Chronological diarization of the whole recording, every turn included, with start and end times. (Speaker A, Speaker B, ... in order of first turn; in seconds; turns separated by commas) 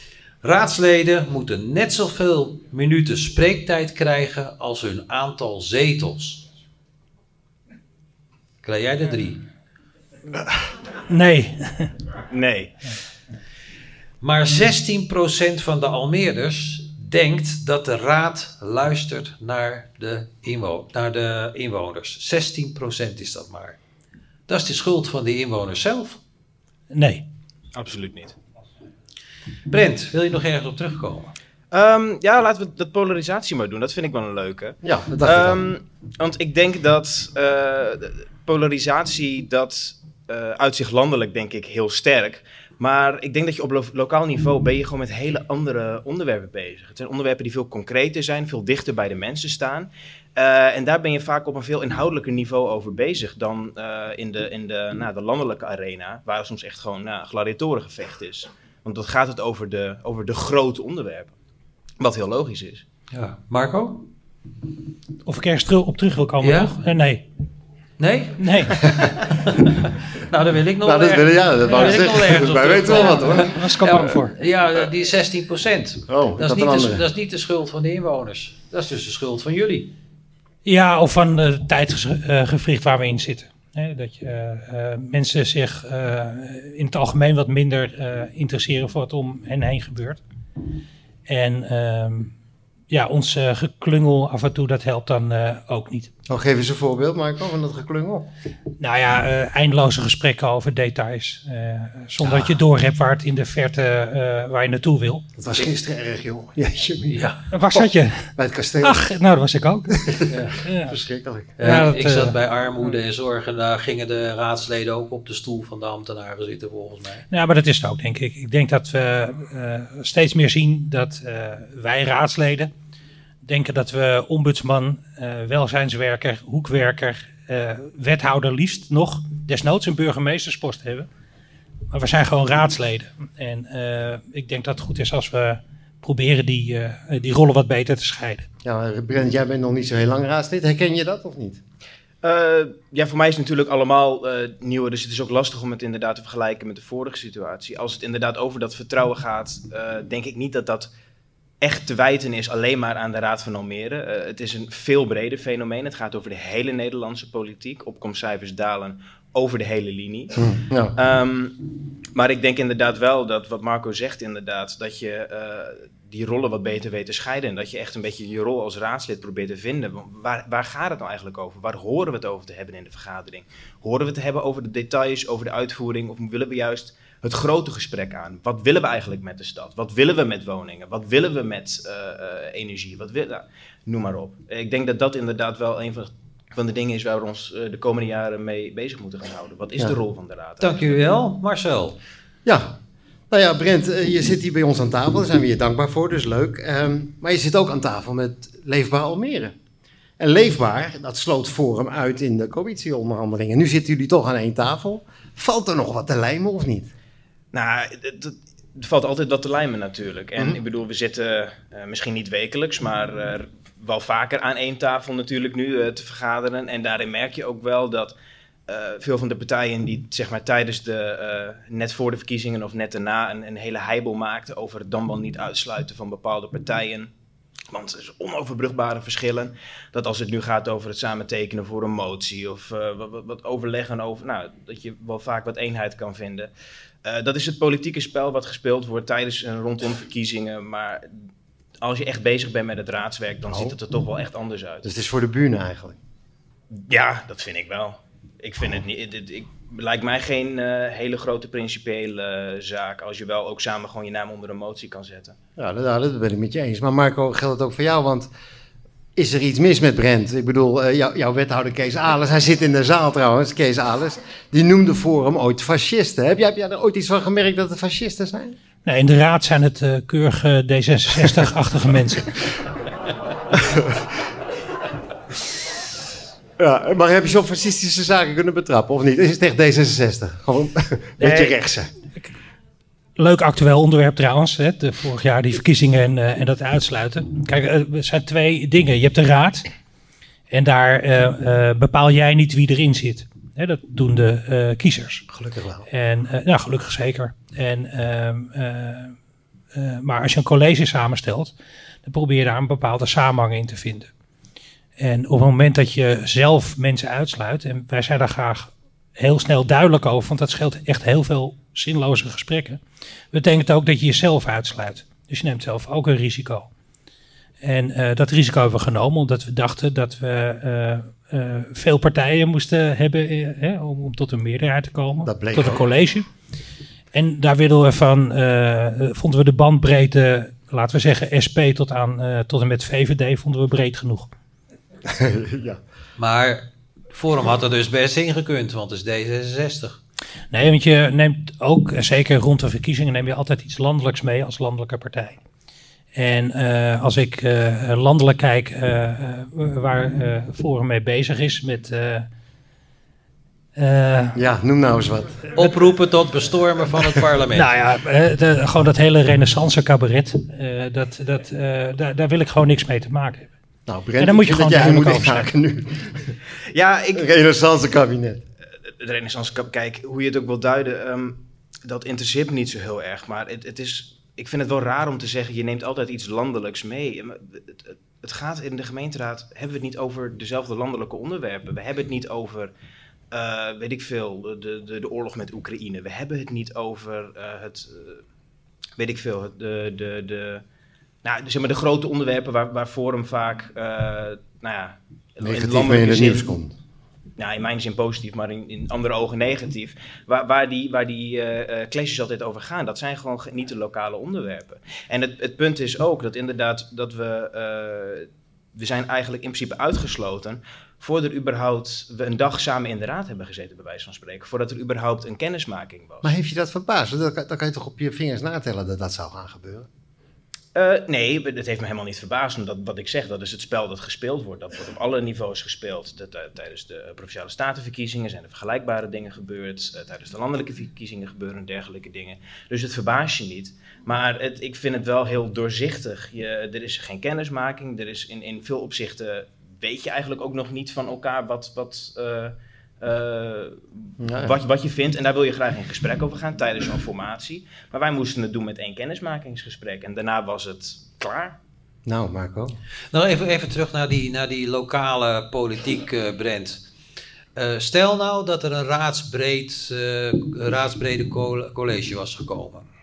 Speaker A: 0.4-6.4, Speaker A: 8.6-9.4, Speaker B: 11.1-11.9, Speaker C: 12.3-12.7, Speaker A: 14.2-23.8, Speaker A: 24.5-26.2, Speaker B: 26.9-27.2, Speaker C: 27.8-28.4, Speaker A: 29.7-31.3, Speaker C: 31.7-61.3, Speaker D: 34.8-35.6, Speaker C: 62.0-62.8, Speaker A: 63.1-64.0, Speaker B: 65.3-67.2, Speaker A: 66.4-66.7, Speaker A: 68.0-79.9, Speaker B: 68.4-68.7, Speaker D: 70.8-73.5, Speaker B: 72.9-74.3, Speaker D: 76.1-77.0, Speaker B: 80.7-90.2, Speaker B: 91.3-92.3, Speaker B: 92.9-96.1, Speaker D: 96.3-98.3, Speaker B: 98.8-105.3, Speaker D: 105.4-107.3, Speaker A: 107.1-107.4, Speaker B: 107.5-110.9, Speaker D: 108.4-109.1, Speaker D: 110.0-111.5, Speaker A: 110.3-110.6, Speaker A: 111.6-117.2, Speaker B: 111.6-112.3, Speaker B: 117.3-122.7, Speaker B: 123.5-131.1, Speaker B: 131.9-138.5, Speaker D: 138.6-141.6, Speaker C: 142.2-150.9, Speaker C: 151.6-160.4, Speaker D: 160.4-161.0, Speaker C: 161.0-161.6, Speaker C: 162.2-191.0, Speaker A: 190.6-192.0, Speaker D: 192.4-192.8, Speaker D: 193.3-199.6, Speaker D: 200.2-206.9, Speaker C: 207.5-218.2, Speaker C: 218.7-227.1, Speaker C: 227.7-236.5, Speaker C: 237.0-241.1, Speaker C: 241.8-244.9, Speaker D: 243.5-243.8, Speaker D: 244.8-246.0, Speaker C: 246.7-255.4, Speaker D: 255.6-258.3, Speaker D: 259.2-268.6, Speaker B: 268.9-272.4, Speaker D: 273.5-274.1, Speaker D: 276.6-281.9, Speaker B: 281.2-281.5, Speaker B: 283.2-289.6, Speaker B: 290.5-295.2, Speaker D: 295.3-295.9, Speaker B: 295.9-299.1, Speaker B: 299.7-301.5, Speaker B: 302.1-304.1, Speaker B: 305.0-312.8, Speaker B: 313.3-316.7, Speaker B: 317.6-326.3, Speaker D: 325.3-325.8, Speaker B: 327.1-334.3, Speaker D: 335.1-335.8, Speaker A: 336.2-340.0, Speaker B: 340.5-345.4, Speaker B: 346.1-352.3, Speaker B: 353.8-354.4, Speaker D: 354.4-355.4, Speaker A: 355.6-357.7, Speaker B: 357.5-363.5, Speaker D: 363.9-366.1, Speaker B: 364.2-365.5, Speaker C: 366.7-367.3, Speaker D: 367.1-368.4, Speaker C: 369.0-382.7, Speaker C: 383.3-388.2, Speaker C: 389.0-390.6, Speaker C: 391.2-396.5, Speaker D: 395.4-396.7, Speaker C: 397.4-416.3, Speaker D: 416.2-419.9, Speaker C: 420.8-451.6, Speaker D: 444.2-444.6, Speaker D: 452.1-452.8, Speaker A: 453.1-456.8, Speaker A: 457.6-462.9